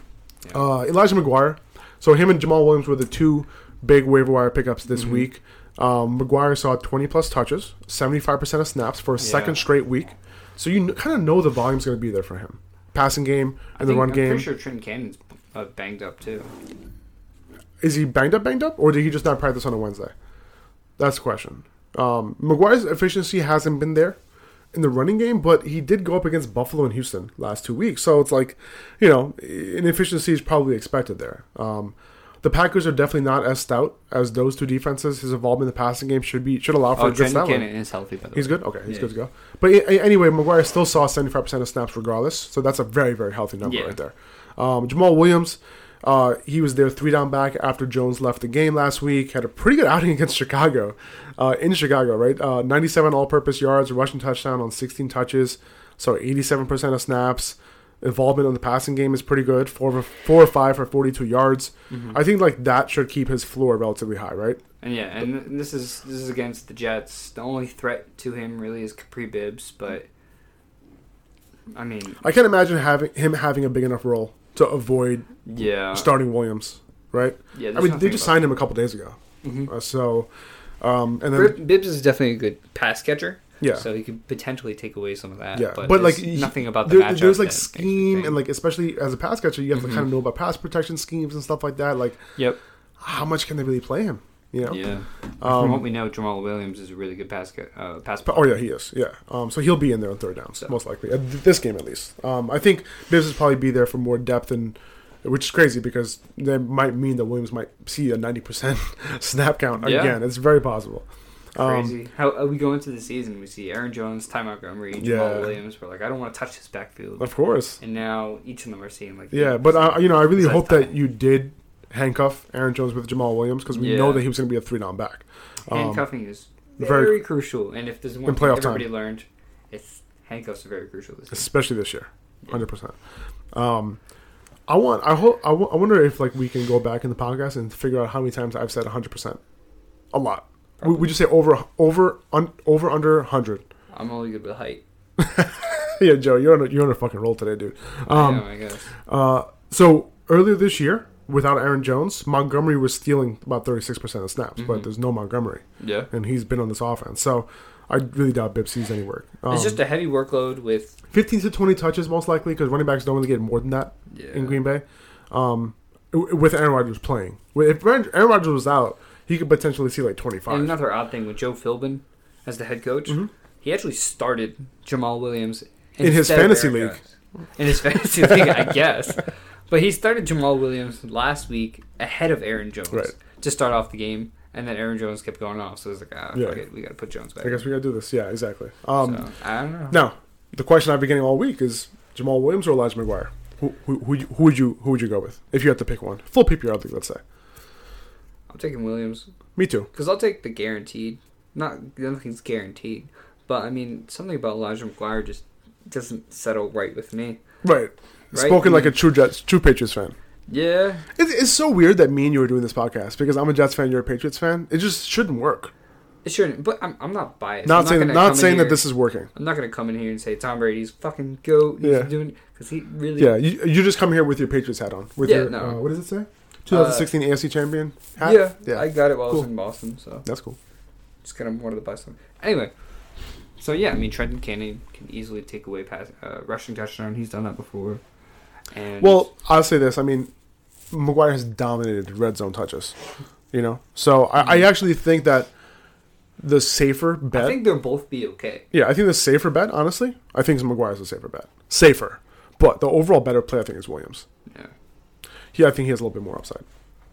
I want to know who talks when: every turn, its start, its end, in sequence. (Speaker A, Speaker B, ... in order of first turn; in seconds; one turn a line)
Speaker A: 0.5-14.5
Speaker B: 4.9-5.3
Speaker B: 9.2-9.7
Speaker B: 13.8-16.5
Speaker A: 17.8-20.1
Speaker A: 21.0-24.2
Speaker A: 24.7-37.7
Speaker B: 37.0-39.1
Speaker A: 38.3-64.6
Speaker B: 43.6-44.0
Speaker B: 61.9-62.2
Speaker B: 64.8-70.1
Speaker B: 71.7-72.2
Speaker A: 72.2-75.3
Speaker B: 75.5-76.1
Speaker A: 75.9-80.3
Speaker B: 77.5-78.5
Speaker B: 79.4-79.7
Speaker A: 80.8-81.6
Speaker B: 81.3-88.4
Speaker A: 85.5-92.2
Speaker B: 89.7-90.1
Speaker A: 93.0-94.8
Speaker B: 94.6-98.6
Speaker A: 95.4-95.8
Speaker A: 98.2-111.9
Speaker B: 109.8-110.2
Speaker B: 111.5-120.9
Speaker A: 115.0-115.5
Speaker A: 117.2-117.8
Speaker A: 119.3-126.0
Speaker B: 123.7-124.3
Speaker B: 125.7-131.5
Speaker A: 126.8-127.2
Speaker A: 128.2-128.9
Speaker A: 131.3-132.9
Speaker A: 133.5-134.0
Speaker A: 134.7-139.4
Speaker A: 140.1-143.6
Speaker B: 140.8-141.1
Speaker B: 143.9-144.8
Speaker A: 145.2-148.4
Speaker B: 148.1-148.9
Speaker A: 149.1-159.8
Speaker B: 154.6-154.9
Speaker B: 155.8-156.1
Speaker B: 159.5-161.0
Speaker A: 161.1-170.7
Speaker B: 164.1-164.6
Speaker B: 170.5-187.6
Speaker A: 176.0-177.0
Speaker A: 186.3-186.6
Speaker A: 187.4-189.2
Speaker B: 189.0-190.0
Speaker A: 189.9-197.2
Speaker B: 198.5-199.3
Speaker A: 199.6-199.9
Speaker B: 199.9-207.4
Speaker A: 207.6-210.1
Speaker B: 208.3-209.0
Speaker B: 210.5-211.1
Speaker A: 211.2-215.7
Speaker B: 216.2-223.4
Speaker A: 217.6-219.3
Speaker A: 221.8-222.1
Speaker A: 223.2-229.4
Speaker B: 225.2-225.8
Speaker B: 226.7-227.1
Speaker B: 228.2-230.2
Speaker A: 230.2-230.6
Speaker B: 231.2-232.7
Speaker B: 233.6-238.0
Speaker B: 238.7-239.3
Speaker A: 239.0-240.3
Speaker A: 240.9-242.9
Speaker A: 243.5-245.5
Speaker B: 244.4-244.7
Speaker A: 246.4-247.6
Speaker B: 247.3-248.7
Speaker A: 248.7-254.2
Speaker A: 255.5-256.6